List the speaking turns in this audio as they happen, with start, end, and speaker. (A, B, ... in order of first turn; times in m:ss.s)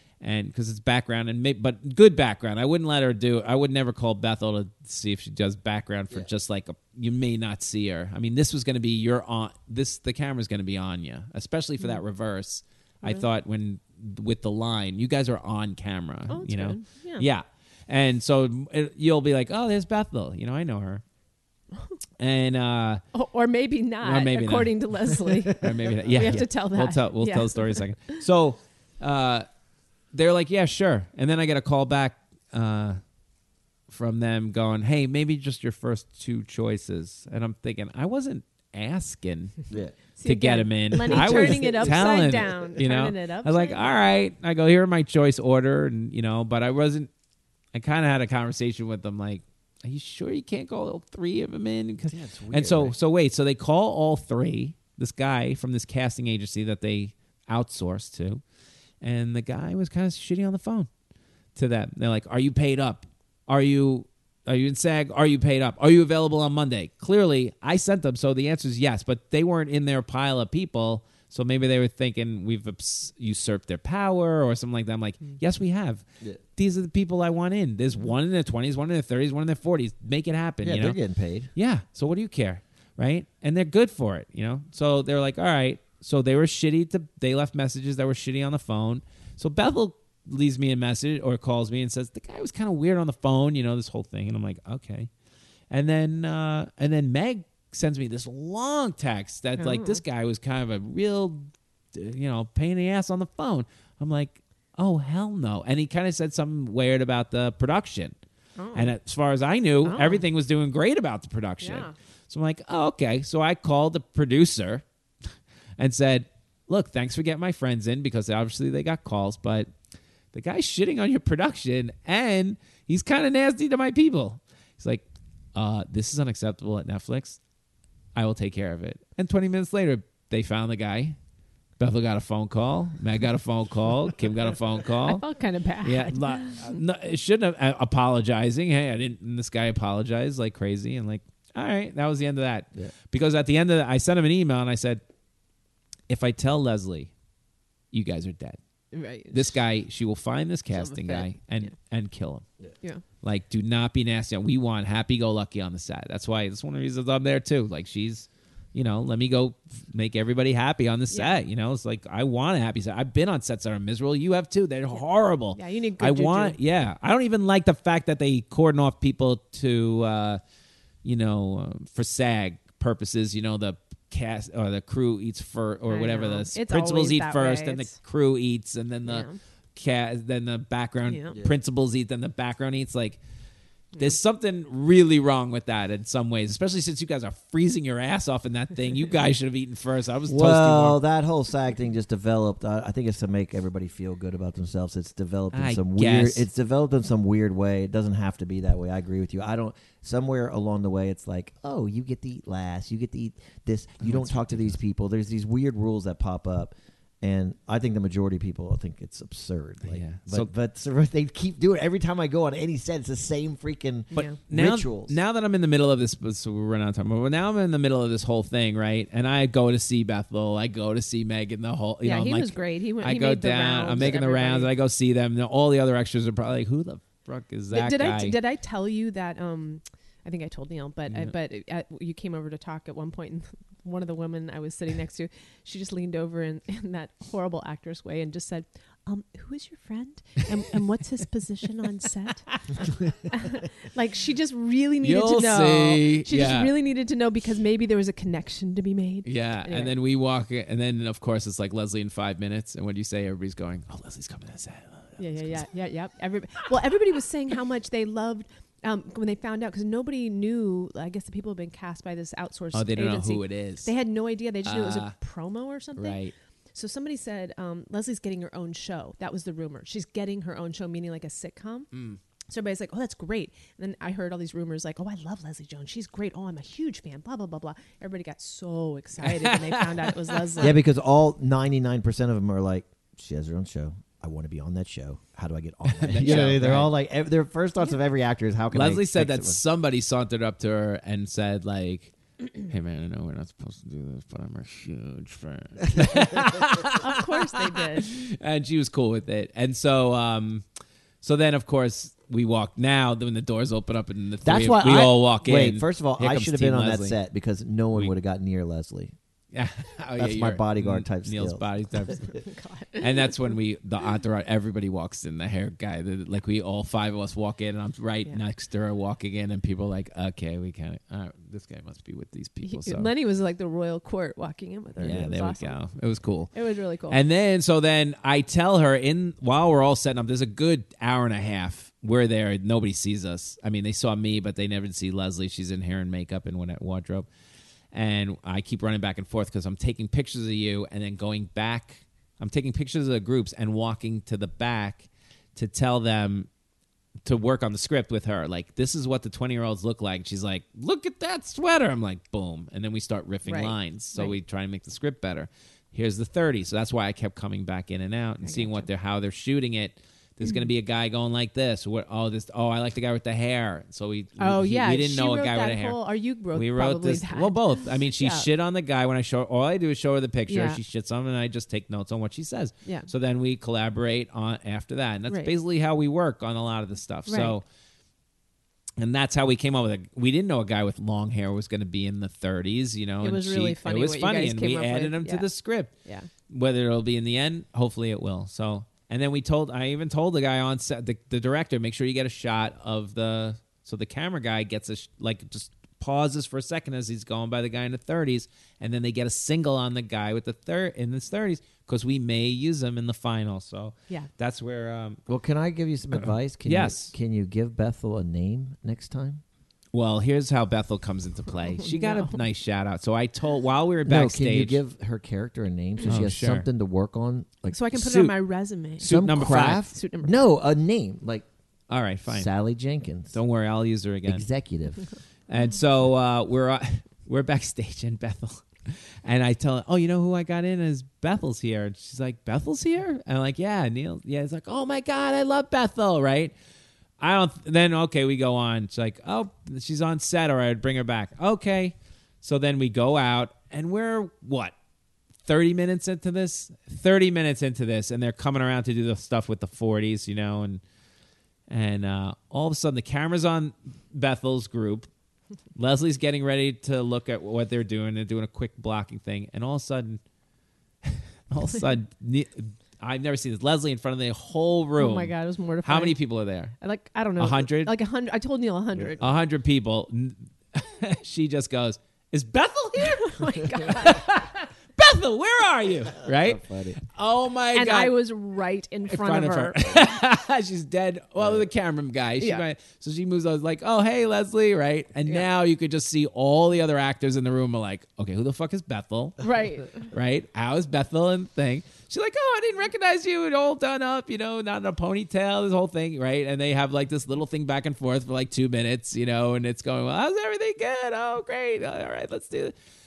0:00.2-0:21.0 A
0:16.3-0:17.3 B
0:22.2-0:23.0 A
0:23.1-0:28.2 B
0:24.0-0:29.5 A
0:30.1-0:33.0 A
0:33.9-0:39.6 A
0:39.7-0:40.0 C
0:40.2-0:44.0 B
0:40.2-0:47.1 A
0:41.0-0:42.5 C
0:47.7-0:58.4 A
0:52.1-0:53.0 C
0:59.0-1:00.9 A
1:01.6-1:16.0 A
1:16.6-1:21.0 A
1:20.6-1:21.5 C
1:21.6-1:35.1 A
1:35.7-1:48.2 A
1:39.6-1:40.0 B
1:48.6-1:48.9 B
1:48.7-1:54.8 A
1:49.8-1:50.2 B
1:51.6-1:51.9 B
1:55.8-1:59.7 A
2:00.3-2:05.0 A
2:05.6-2:07.4 A
2:08.1-2:11.2 A
2:11.8-2:15.2 A
2:15.0-2:16.8 B
2:15.8-2:25.0 A
2:26.1-2:27.1 A
2:27.9-2:28.6 A
2:28.9-2:29.6 B
2:29.3-2:32.4 A
2:30.7-2:31.7 B
2:33.2-2:50.4 A
2:41.1-2:41.4 B
2:45.6-2:46.6 B
2:51.0-3:03.2 A
2:55.9-2:57.9 B
2:59.1-2:59.4 B
3:01.1-3:01.4 B
3:04.0-3:11.0 A
3:10.3-3:35.2 C
3:15.5-3:16.5 A
3:24.0-3:24.8 A
3:29.8-3:30.5 A
3:34.1-3:34.4 B
3:34.1-3:48.4 A
3:42.0-3:44.7 B
3:47.7-4:02.5 B
4:03.2-4:09.9 B
4:05.0-4:06.7 A
4:09.2-4:15.6 A
4:15.2-4:26.2 B
4:22.7-4:23.9 A
4:24.6-4:25.2 A
4:26.0-4:26.3 A
4:26.8-4:31.9 B
4:31.9-4:32.2 A
4:32.5-4:40.8 B
4:39.2-4:40.4 A
4:40.6-4:49.6 C
4:45.9-4:46.9 A
4:48.7-5:00.6 A
4:56.0-4:56.2 C
4:56.9-4:58.1 B
5:01.2-5:07.2 A
5:04.4-5:09.1 C
5:09.5-5:12.4 A
5:10.2-5:12.2 C
5:12.3-5:13.5 B
5:13.0-5:23.1 A
5:22.6-5:25.8 B
5:25.0-5:26.6 A
5:26.5-5:27.2 B
5:27.1-5:37.3 A
5:37.9-5:46.5 A
5:47.2-6:17.6 A
5:53.4-5:54.4 B
5:58.4-5:58.9 B
6:04.4-6:08.5 B
6:10.5-6:10.8 B
6:17.3-6:17.6 B
6:19.0-6:25.9 A
6:23.2-6:25.5 B
6:26.5-6:45.2 A
6:45.3-6:49.4 C
6:46.1-6:47.1 A
6:49.9-6:54.8 A
6:51.8-6:52.4 B
6:54.1-6:57.8 C
6:56.0-6:56.7 A
6:57.7-7:00.4 B
6:57.9-6:58.4 A
6:59.0-6:59.9 A
6:59.0-7:01.5 C
7:01.9-7:02.5 A
7:02.3-7:03.4 C
7:03.3-7:04.5 A
7:04.3-7:05.1 C
7:05.5-7:16.5 A
7:17.2-7:24.7 A
7:25.5-7:30.8 A
7:31.7-7:35.1 A
7:35.8-7:40.2 A
7:41.0-7:46.8 A
7:45.0-7:46.2 B
7:46.8-7:49.2 B
7:47.4-7:47.9 A
7:48.9-7:49.2 C
7:49.2-7:58.1 A
7:53.0-7:54.3 B
7:56.3-7:57.0 C
7:57.7-8:00.0 B
7:59.1-8:09.5 A
8:09.4-8:10.1 B
8:10.0-8:22.7 A